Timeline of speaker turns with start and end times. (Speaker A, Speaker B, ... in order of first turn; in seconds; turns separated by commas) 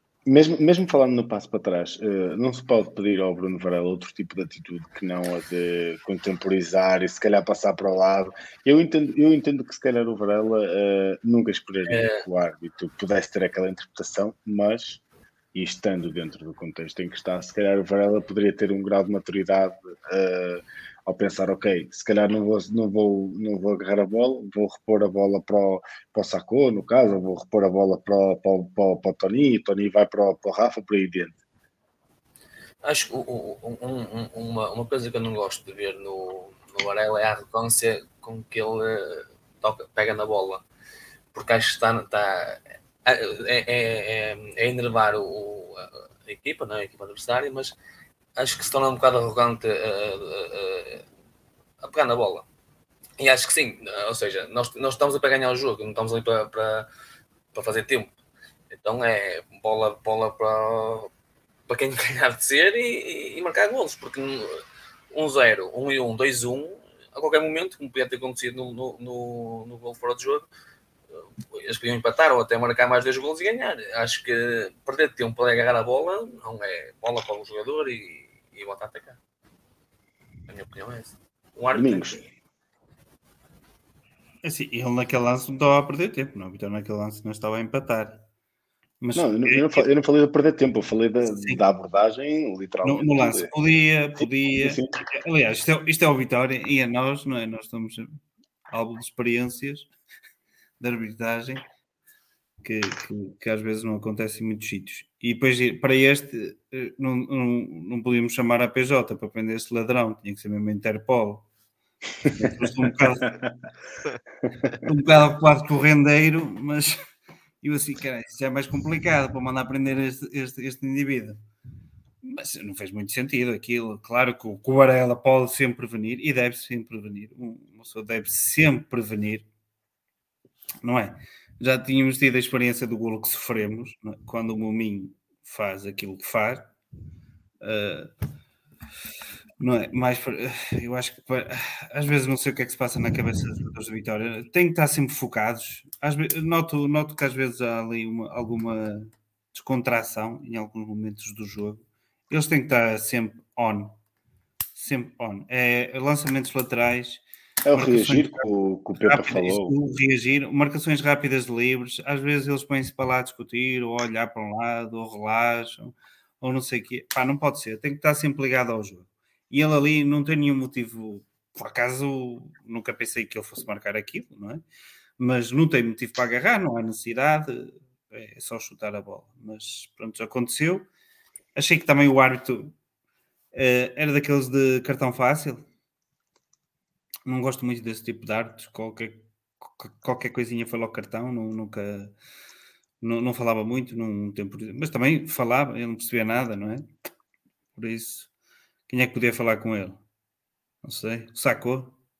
Speaker A: 0.2-15.0, Speaker B: 11.9-12.2, Speaker A: 15.5-31.4, Speaker B: 32.8-40.6, Speaker B: 41.3-47.8, Speaker B: 48.4-51.0, Speaker B: 51.8-52.5, Speaker B: 53.2-56.9, Speaker B: 57.5-58.1, Speaker B: 58.7-61.1, Speaker B: 61.7-70.5, Speaker B: 71.5-79.2, Speaker B: 80.5-82.2, Speaker A: 81.7-82.2, Speaker C: 84.4-88.2, Speaker C: 89.0-89.9, Speaker A: 89.1-93.5, Speaker C: 91.3-91.6, Speaker C: 92.8-98.2, Speaker A: 94.2-94.9, Speaker C: 98.7-99.9, Speaker C: 100.8-101.6, Speaker C: 102.6-111.5, Speaker C: 112.3-113.4, Speaker A: 113.2-113.5, Speaker C: 114.8-117.0, Speaker C: 117.6-121.4, Speaker C: 122.2-129.4, Speaker C: 130.8-136.7, Speaker C: 137.6-138.1, Speaker C: 139.6-153.9, Speaker C: 154.7-157.2, Speaker A: 157.6-159.7, Speaker C: 157.7-174.6, Speaker C: 175.2-180.9, Speaker C: 181.5-182.7, Speaker C: 183.5-185.6, Speaker C: 187.2-192.1, Speaker C: 193.0-196.9, Speaker C: 197.8-198.3, Speaker C: 198.9-200.0, Speaker C: 200.8-201.9